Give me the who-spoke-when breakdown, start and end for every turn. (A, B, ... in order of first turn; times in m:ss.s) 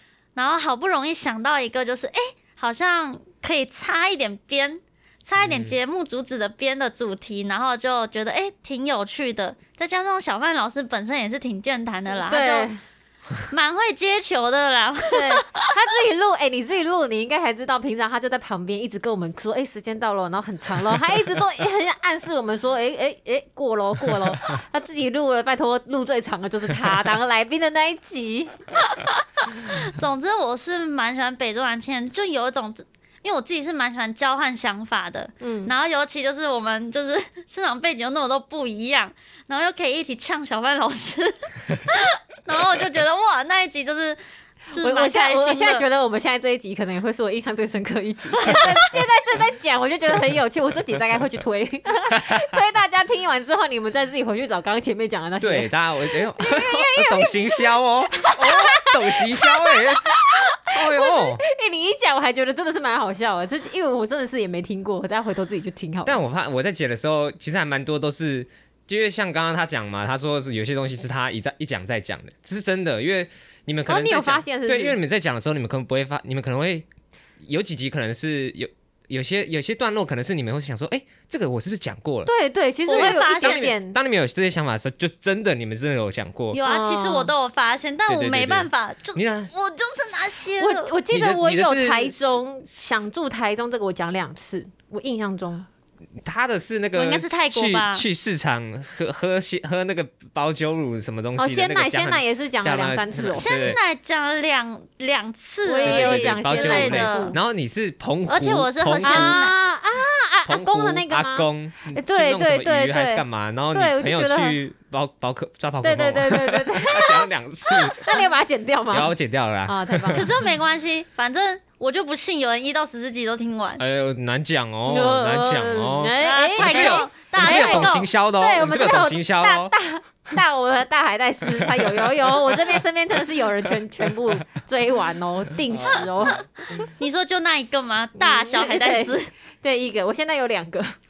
0:00.3-0:12.7 A
0:05.4-0:05.8 B
0:12.2-0:12.8 C
0:13.4-0:15.6 A
0:15.1-0:28.5 C
0:28.8-0:44.2 A
0:35.4-0:35.7 C
0:44.7-0:45.8 A
0:44.8-0:57.4 C
0:48.4-0:48.8 A
0:55.4-1:01.4 B
0:58.2-1:06.2 C
1:06.0-1:16.9 B
1:13.8-1:15.0 C
1:17.4-1:22.3 B
1:22.2-1:24.0 C
1:22.9-1:23.7 A
1:22.9-1:26.6 B
1:26.5-1:30.9 A
1:26.6-1:27.3 C
1:28.1-1:29.5 B
1:30.6-1:35.6 C
1:31.1-1:33.0 B
1:36.2-1:43.8 B
1:36.9-1:38.0 A
1:41.4-1:43.5 C
1:43.2-1:47.4 A
1:45.6-1:47.4 C
1:45.8-1:49.4 B
1:48.3-1:49.6 A
1:49.0-1:54.6 C
1:50.4-1:58.2 B
1:55.8-1:59.1 C
1:58.9-2:00.4 B
1:59.6-2:00.3 C
2:00.1-2:03.8 A
2:03.8-2:09.7 B
2:04.8-2:16.8 C
2:06.2-2:08.1 A
2:11.6-2:12.8 B
2:14.0-2:14.4 B
2:15.7-2:16.5 B
2:17.0-2:19.3 A
2:18.2-2:20.9 C